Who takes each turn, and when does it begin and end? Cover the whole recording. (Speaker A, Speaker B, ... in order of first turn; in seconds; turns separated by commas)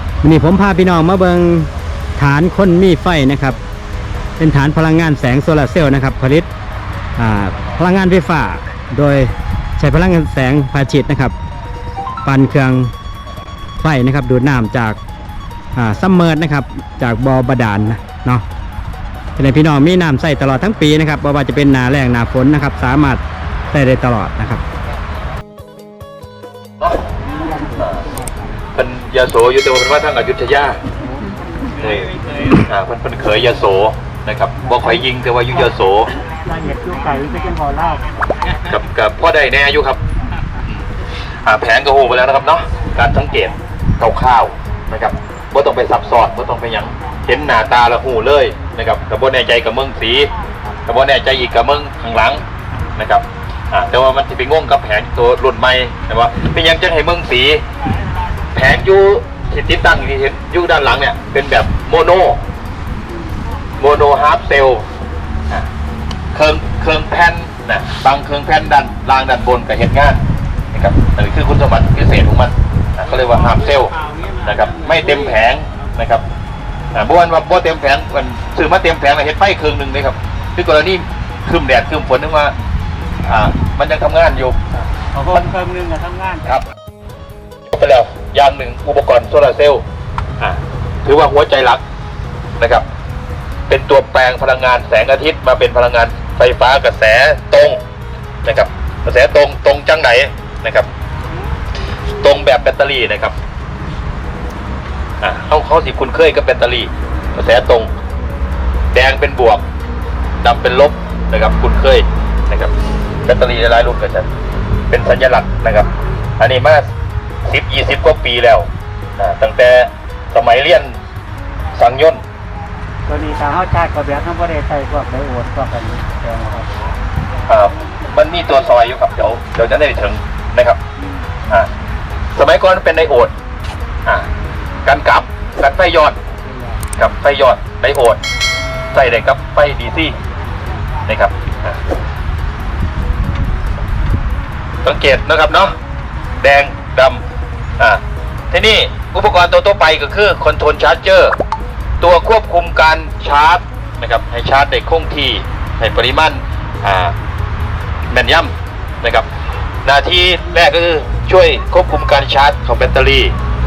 Speaker A: 0.2-3.6, Speaker A: 4.4-6.5, Speaker A: 7.2-11.3, Speaker A: 12.2-12.9, Speaker A: 13.8-15.0, Speaker A: 15.8-18.4, Speaker A: 19.4-24.6, Speaker B: 27.3-28.3, Speaker C: 27.8-28.0, Speaker C: 28.7-30.8, Speaker C: 31.8-36.2, Speaker B: 36.4-38.1, Speaker C: 38.6-40.0, Speaker C: 41.4-50.3, Speaker C: 50.9-52.4, Speaker C: 53.0-57.6, Speaker C: 58.5-62.4, Speaker C: 63.8-64.8, Speaker C: 66.3-70.2, Speaker C: 70.7-76.2, Speaker C: 76.9-82.5, Speaker C: 83.2-84.6, Speaker B: 85.1-86.4, Speaker C: 87.7-89.8, Speaker C: 90.4-91.8, Speaker C: 92.6-92.8, Speaker C: 93.7-97.8, Speaker C: 98.4-100.9, Speaker C: 102.2-103.3, Speaker C: 105.2-107.9, Speaker C: 108.9-109.6, Speaker C: 110.4-112.7, Speaker C: 113.2-114.3, Speaker C: 114.9-116.9, Speaker C: 117.4-121.0, Speaker C: 121.7-122.2, Speaker B: 123.1-126.7, Speaker C: 127.5-130.8, Speaker C: 132.3-133.3, Speaker C: 134.8-136.2, Speaker C: 137.0-138.2, Speaker C: 138.9-140.2, Speaker C: 141.1-141.8, Speaker C: 144.8-145.7, Speaker C: 146.4-147.2, Speaker C: 147.8-151.4, Speaker C: 152.0-157.1, Speaker C: 158.1-159.3, Speaker C: 159.8-163.3